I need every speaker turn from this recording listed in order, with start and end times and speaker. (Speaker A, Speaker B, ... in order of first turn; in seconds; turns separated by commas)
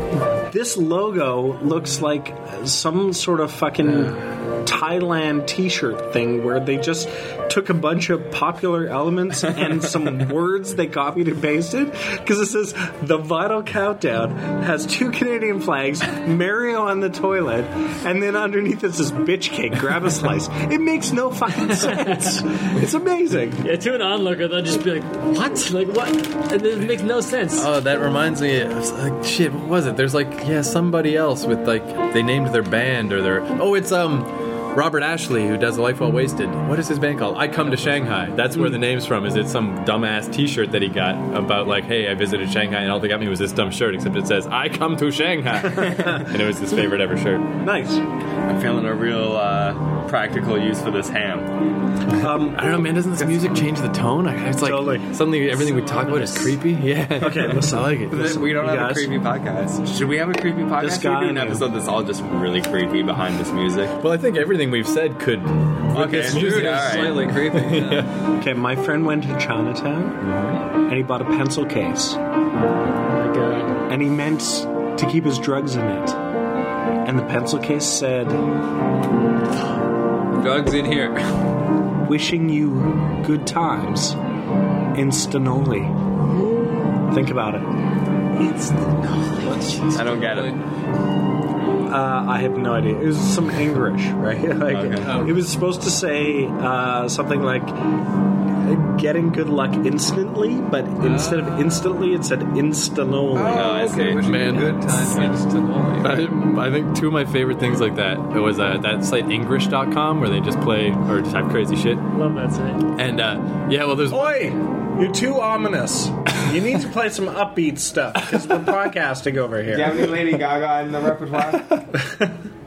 Speaker A: 0.5-23.6, Speaker B: 21.9-22.4, Speaker B: 23.6-27.7, Speaker C: 27.6-47.5, Speaker A: 45.7-46.4, Speaker A: 47.6-48.0, Speaker D: 48.5-51.5, Speaker A: 52.1-52.6, Speaker C: 52.3-58.3, Speaker A: 54.6-55.2, Speaker A: 57.2-59.1, Speaker D: 58.1-63.9, Speaker A: 60.8-61.6, Speaker C: 64.0-66.9, Speaker D: 65.9-67.3, Speaker E: 66.2-68.1, Speaker C: 67.5-68.1, Speaker A: 68.4-70.2, Speaker C: 70.2-70.5, Speaker A: 70.8-72.2, Speaker B: 73.1-73.8, Speaker A: 73.9-76.2, Speaker A: 77.0-78.4, Speaker E: 80.3-81.2, Speaker A: 82.0-84.2, Speaker A: 84.9-86.0, Speaker A: 87.0-87.7, Speaker E: 89.4-90.6, Speaker D: 89.9-90.6, Speaker A: 91.9-97.7, Speaker D: 94.7-95.1, Speaker E: 95.0-95.4, Speaker A: 98.6-103.9, Speaker E: 101.0-101.6, Speaker E: 103.3-106.3, Speaker D: 103.5-104.3, Speaker C: 104.2-105.3, Speaker C: 106.0-112.0, Speaker B: 112.1-112.9, Speaker C: 112.9-114.5, Speaker A: 114.1-120.2, Speaker D: 119.7-121.8